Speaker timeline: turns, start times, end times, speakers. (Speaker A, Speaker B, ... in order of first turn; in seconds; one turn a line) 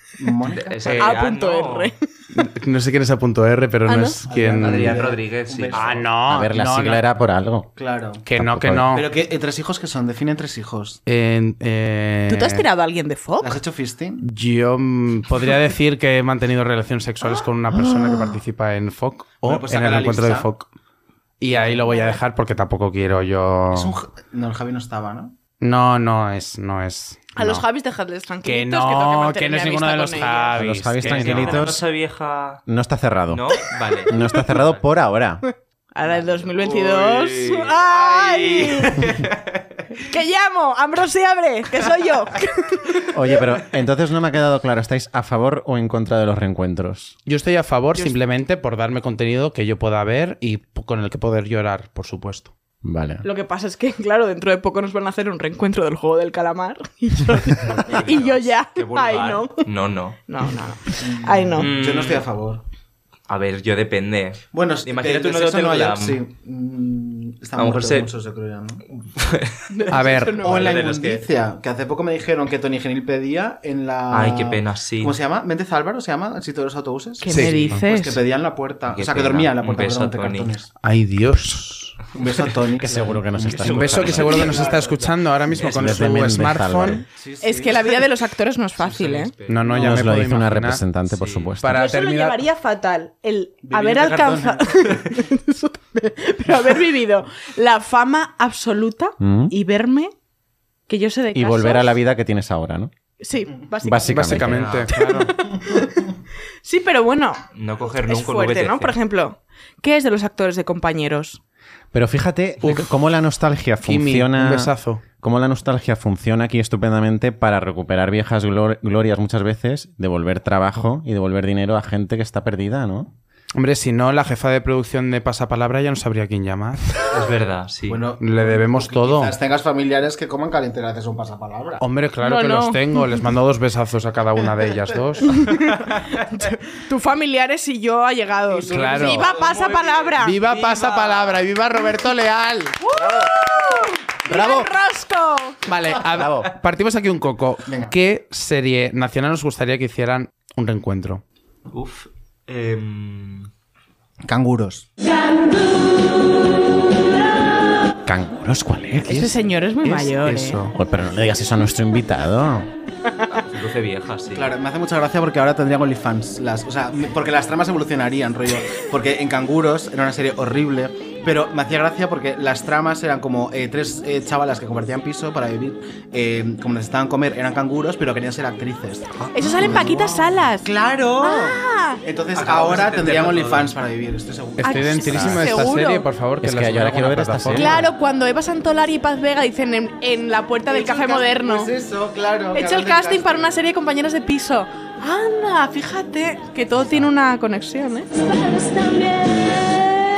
Speaker A: 0.2-1.0
Speaker B: 0.5-1.9
Speaker C: 0.8-1.2
Speaker D: 1.0-2.0
Speaker C: 2.3-5.0
Speaker D: 3.9-4.2
Speaker A: 4.3-6.1
Speaker B: 4.6-6.0
Speaker C: 5.7-7.0
Speaker E: 6.3-7.7
Speaker A: 7.8-8.2
Speaker C: 8.2-9.1
Speaker E: 8.4-8.9
Speaker A: 8.9-11.0
Speaker C: 11.1-12.7
Speaker D: 12.3-13.6
Speaker A: 13.4-14.2
Speaker C: 14.2-20.7
Speaker A: 19.4-20.5
Speaker C: 21.4-23.9
Speaker A: 21.5-21.9
Speaker A: 23.7-25.3
Speaker C: 25.6-27.6
Speaker D: 27.4-30.7
Speaker C: 28.4-31.7
Speaker E: 30.6-31.8
Speaker B: 31.0-32.6
Speaker E: 32.7-35.4
Speaker B: 33.3-34.8
Speaker D: 35.9-39.1
Speaker B: 36.1-40.0
Speaker D: 40.0-43.1
Speaker E: 43.1-47.2
Speaker C: 47.3-52.5
Speaker E: 52.8-53.2
Speaker D: 53.2-59.7
Speaker B: 57.8-60.2
Speaker D: 60.3-61.7
Speaker A: 61.0-62.6
Speaker B: 61.6-62.3
Speaker B: 63.3-66.2
Speaker A: 64.5-69.0
Speaker B: 67.6-68.1
Speaker B: 69.2-69.7
Speaker D: 69.7-70.8
Speaker C: 69.9-70.4
Speaker B: 70.2-71.3
Speaker A: 70.4-80.7
Speaker B: 74.1-75.2
Speaker D: 77.2-78.2
Speaker C: 77.3-77.8
Speaker B: 78.9-80.5
Speaker C: 80.8-82.0
Speaker A: 82.1-85.0
Speaker E: 82.8-84.5
Speaker B: 83.4-86.4
Speaker C: 83.5-87.0
Speaker E: 85.7-87.0
Speaker A: 87.2-87.9
Speaker D: 87.4-89.3
Speaker B: 88.8-89.9
Speaker C: 89.5-90.8
Speaker E: 89.7-91.8
Speaker B: 91.1-91.5
Speaker C: 91.6-92.4
Speaker D: 91.7-100.1
Speaker A: 93.6-95.2
Speaker E: 99.2-99.5
Speaker D: 100.9-102.0
Speaker E: 101.3-102.9
Speaker D: 103.2-106.1
Speaker E: 103.8-104.7
Speaker C: 104.0-105.4
Speaker B: 104.4-105.0
Speaker D: 106.6-111.4
Speaker B: 107.5-109.0
Speaker E: 111.9-123.1
Speaker C: 112.6-112.9
Speaker C: 113.8-115.0
Speaker C: 123.6-127.0
Speaker B: 127.1-128.0
Speaker A: 127.9-131.8
Speaker C: 128.2-129.3
Speaker C: 131.8-135.4
Speaker D: 132.2-133.3
Speaker D: 135.3-140.4
Speaker A: 138.5-140.1
Speaker C: 138.7-139.3
Speaker B: 139.2-141.4
Speaker C: 140.2-142.9
Speaker D: 142.9-145.6
Speaker E: 144.3-144.7
Speaker C: 145.7-151.2
Speaker E: 146.2-146.5
Speaker A: 147.7-147.9
Speaker B: 151.7-153.5
Speaker A: 154.3-154.9
Speaker E: 158.1-159.2
Speaker C: 159.0-160.8
Speaker D: 159.1-160.6
Speaker E: 160.7-162.7
Speaker B: 163.3-164.5
Speaker A: 164.3-185.3
Speaker D: 179.3-182.0
Speaker B: 182.3-183.7
Speaker C: 184.6-187.8
Speaker D: 184.7-186.1
Speaker E: 185.1-185.4
Speaker E: 186.4-187.9
Speaker D: 187.5-191.7
Speaker A: 190.7-193.6
Speaker D: 192.5-199.8
Speaker A: 196.8-197.1